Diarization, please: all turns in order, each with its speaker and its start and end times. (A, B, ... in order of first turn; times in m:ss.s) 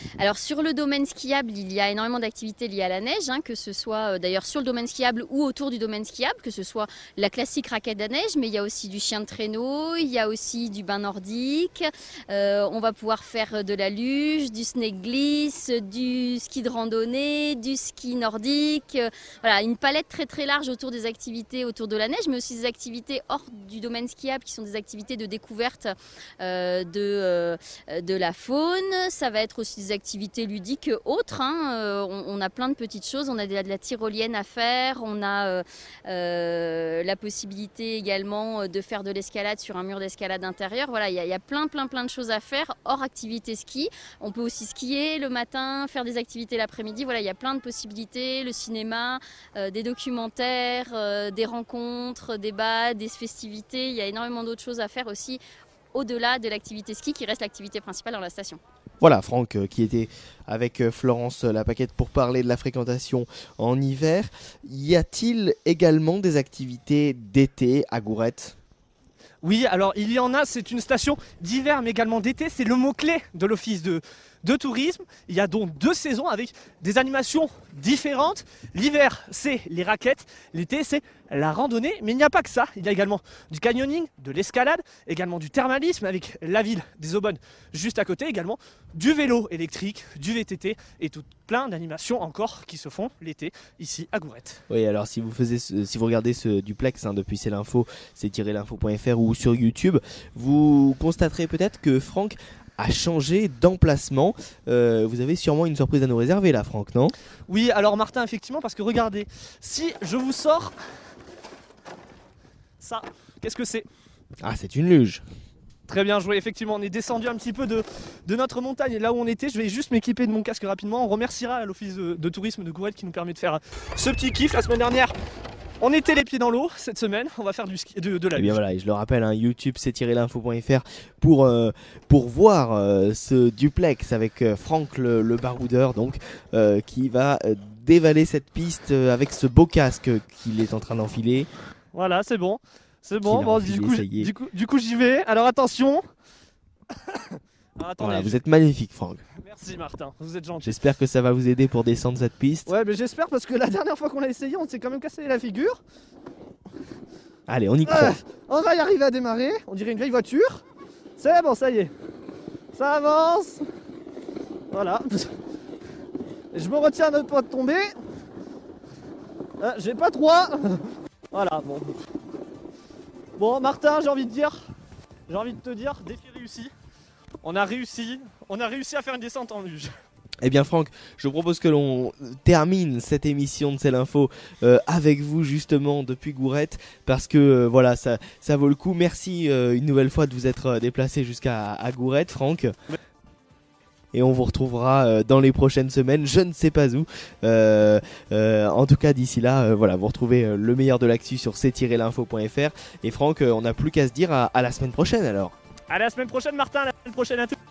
0:00.2-0:55.4 A
0:55.9-0:58.6 A
0:59.0-1:08.6 B
1:09.4-1:34.6 C
1:34.7-1:47.1 B
1:47.5-1:50.7 C
1:52.8-1:53.9 C
1:54.4-1:55.2 B
1:55.9-2:05.1 C
2:05.8-2:08.6 C
2:08.4-2:21.5 B
2:21.9-2:26.0 C
2:23.2-2:24.3 B
2:27.1-2:28.4 C
2:28.0-2:29.2 B
2:29.4-2:30.7 C
2:30.6-2:32.7 B
2:32.7-2:35.8 C
2:37.5-2:38.2 B
2:37.9-2:40.6 C
2:41.2-2:41.9 C
2:42.7-2:43.6 C
2:44.7-2:45.3 C
2:46.5-2:47.9 C
2:49.6-2:52.0 C
2:53.4-2:54.7 C
2:55.3-2:56.7 C
2:57.4-2:59.9 C
3:00.4-3:12.7 B
3:14.1-3:25.6 B
3:25.9-3:27.6 C